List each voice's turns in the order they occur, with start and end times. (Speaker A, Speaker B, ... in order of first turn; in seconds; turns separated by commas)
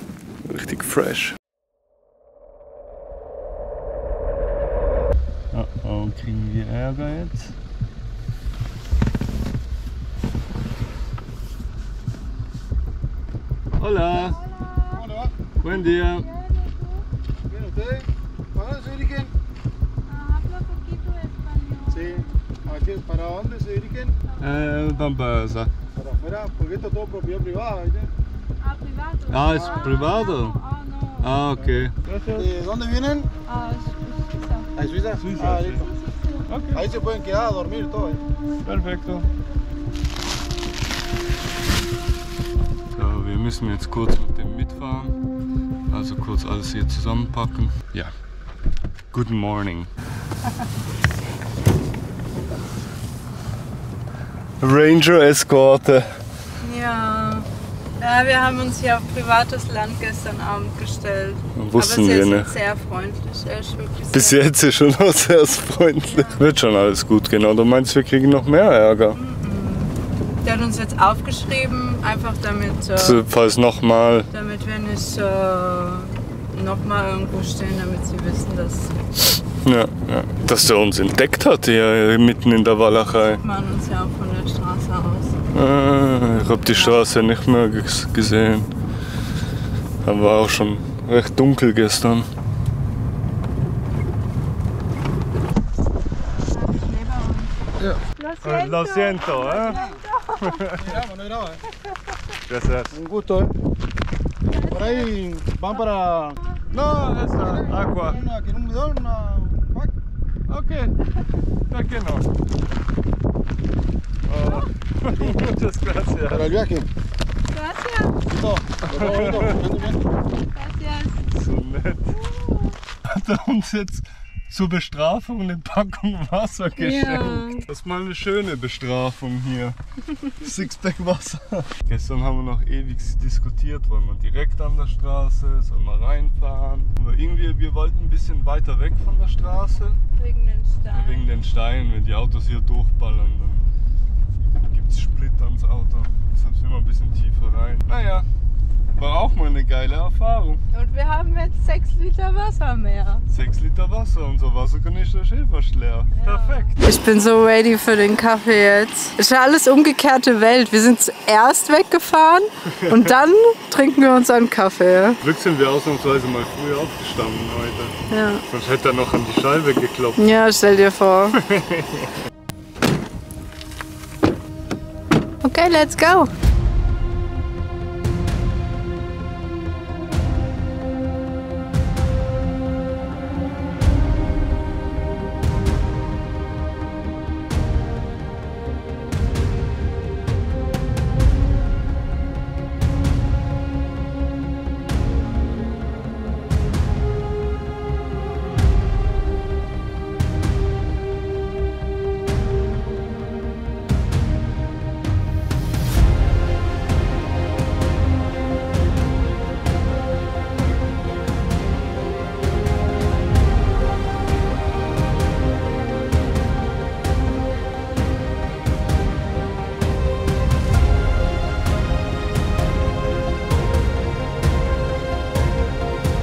Speaker A: 0.4-1.4, Speaker A: 5.5-7.5, Speaker A: 13.8-14.4, Speaker B: 14.1-15.1, Speaker C: 14.9-15.3, Speaker A: 15.6-16.3, Speaker B: 15.7-17.0, Speaker C: 17.5-19.3, Speaker B: 20.1-22.3, Speaker C: 21.9-24.2, Speaker B: 24.3-24.8, Speaker A: 24.4-25.7, Speaker C: 25.9-28.1, Speaker B: 28.6-31.3, Speaker A: 29.3-30.6, Speaker C: 29.5-29.9, Speaker A: 31.2-32.5, Speaker C: 32.3-33.3, Speaker B: 33.5-34.7, Speaker C: 34.8-35.9, Speaker A: 35.2-35.9, Speaker B: 35.8-36.5, Speaker A: 36.5-36.9, Speaker C: 36.7-38.2, Speaker A: 38.6-39.3, Speaker A: 42.9-45.2, Speaker A: 45.9-48.1, Speaker A: 49.1-49.9, Speaker A: 54.6-56.1, Speaker B: 56.6-57.5, Speaker B: 58.0-64.4, Speaker A: 61.5-62.5, Speaker A: 64.1-69.2, Speaker B: 66.0-66.5, Speaker B: 69.1-73.2, Speaker A: 73.0-74.3, Speaker B: 74.3-78.9, Speaker A: 79.6-83.4, Speaker B: 83.2-85.4, Speaker A: 85.5-88.7, Speaker B: 86.7-87.0, Speaker A: 90.0-92.3, Speaker B: 96.4-97.6, Speaker A: 97.8-99.8, Speaker B: 98.1-100.6, Speaker C: 99.6-100.0, Speaker A: 100.4-101.0, Speaker C: 100.7-101.6, Speaker A: 102.5-103.0, Speaker C: 102.9-103.5, Speaker B: 104.4-105.1, Speaker C: 104.7-109.9, Speaker A: 106.7-108.2, Speaker A: 110.5-111.0, Speaker A: 111.7-112.3, Speaker A: 114.3-116.6, Speaker B: 114.4-114.7, Speaker C: 115.2-115.4, Speaker C: 116.3-116.9, Speaker B: 117.5-118.2, Speaker C: 118.3-120.0, Speaker A: 118.8-119.6, Speaker B: 120.4-121.2, Speaker A: 121.2-122.2, Speaker B: 122.1-122.8, Speaker A: 123.0-129.8, Speaker B: 126.8-127.7, Speaker A: 130.3-140.0, Speaker B: 140.2-141.2, Speaker A: 140.9-143.7, Speaker A: 144.6-148.3, Speaker A: 148.9-150.6, Speaker B: 150.7-153.2, Speaker A: 153.3-156.8, Speaker B: 156.2-165.2, Speaker A: 162.8-163.1, Speaker A: 165.2-168.0, Speaker B: 168.1-168.4, Speaker A: 168.5-170.2, Speaker B: 170.2-171.4, Speaker A: 171.3-172.1, Speaker B: 175.4-176.3